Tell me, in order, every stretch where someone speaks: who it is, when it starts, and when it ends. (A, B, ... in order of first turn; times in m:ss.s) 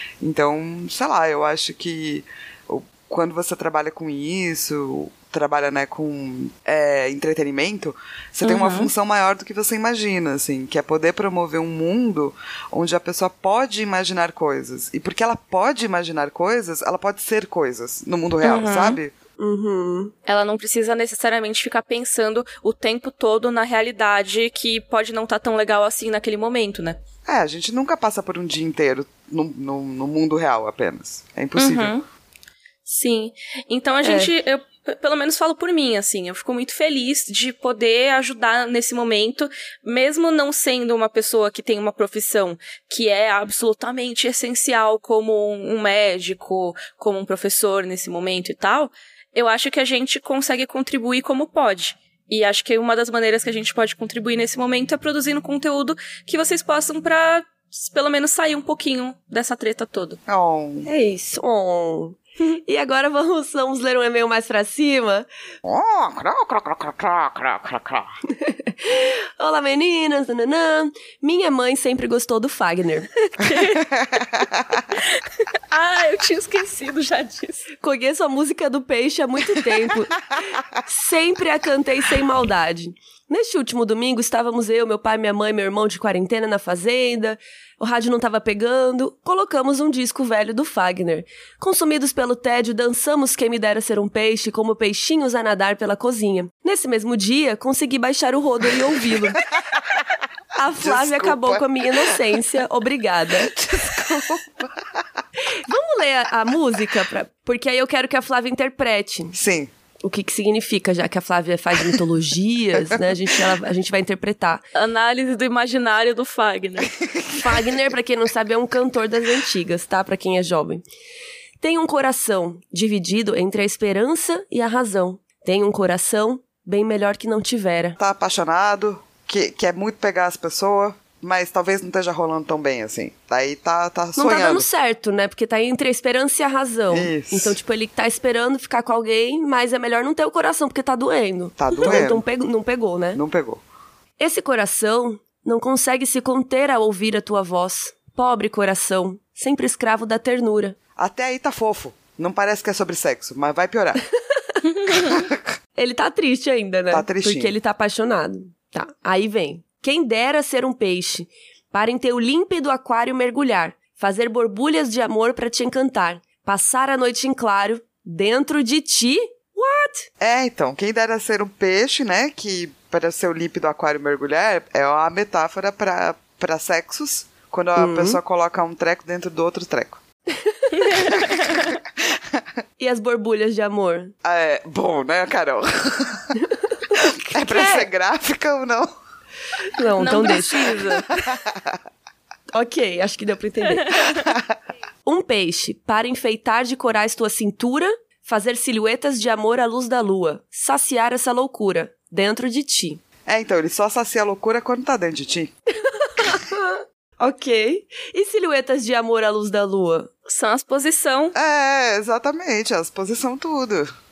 0:00.2-0:19.1 A
0:08.4-0:08.9 B
0:18.4-0:19.0 B
0:19.4-0:20.1 C
0:20.3-0:27.0 B
0:27.3-0:31.9 A
0:31.6-0:32.0 B
0:32.9-1:00.2 B
0:34.0-0:34.3 C
1:00.3-1:00.9 A
1:00.8-1:05.3 C
1:05.6-1:08.1 A
1:08.4-1:13.5 C
1:13.4-1:13.8 B
1:13.8-1:14.9 A
1:15.7-1:17.7 B
1:17.8-1:20.2 C
1:20.8-1:39.4 C
1:39.7-1:40.0 A
1:40.6-1:43.6 C
1:40.8-1:42.2 A
1:43.4-1:45.0 A
1:45.5-1:49.4 C
1:49.3-1:49.7 A
1:50.0-1:54.6 C
1:54.7-1:56.9 B
1:57.0-1:57.8 A
1:57.4-2:00.8 C
2:01.6-2:08.0 C
2:08.0-2:14.7 A
2:14.2-2:23.2 C
2:16.9-2:17.6 A
2:21.6-2:22.2 A
2:23.1-2:23.6 A
2:24.2-2:30.8 C
2:31.0-2:34.0 A
2:34.9-2:35.4 A
2:35.8-2:50.1 C
2:36.9-2:37.5 A
2:50.2-3:00.0 A
2:57.8-2:58.2 C
3:00.4-3:00.8 C
3:00.8-3:01.7 B
3:01.2-3:02.4 A
3:02.8-3:04.1 C
3:04.2-3:06.3 A
3:06.9-3:07.9 C
3:07.3-3:08.9 A
3:09.6-3:10.8 C
3:10.0-3:11.3 B
3:11.0-3:11.8 A
3:12.5-3:14.0 C
3:13.9-3:14.3 B
3:15.0-3:23.0 C
3:23.3-3:25.5 A
3:25.9-3:30.1 C
3:30.3-3:31.4 B
3:31.4-3:33.9 A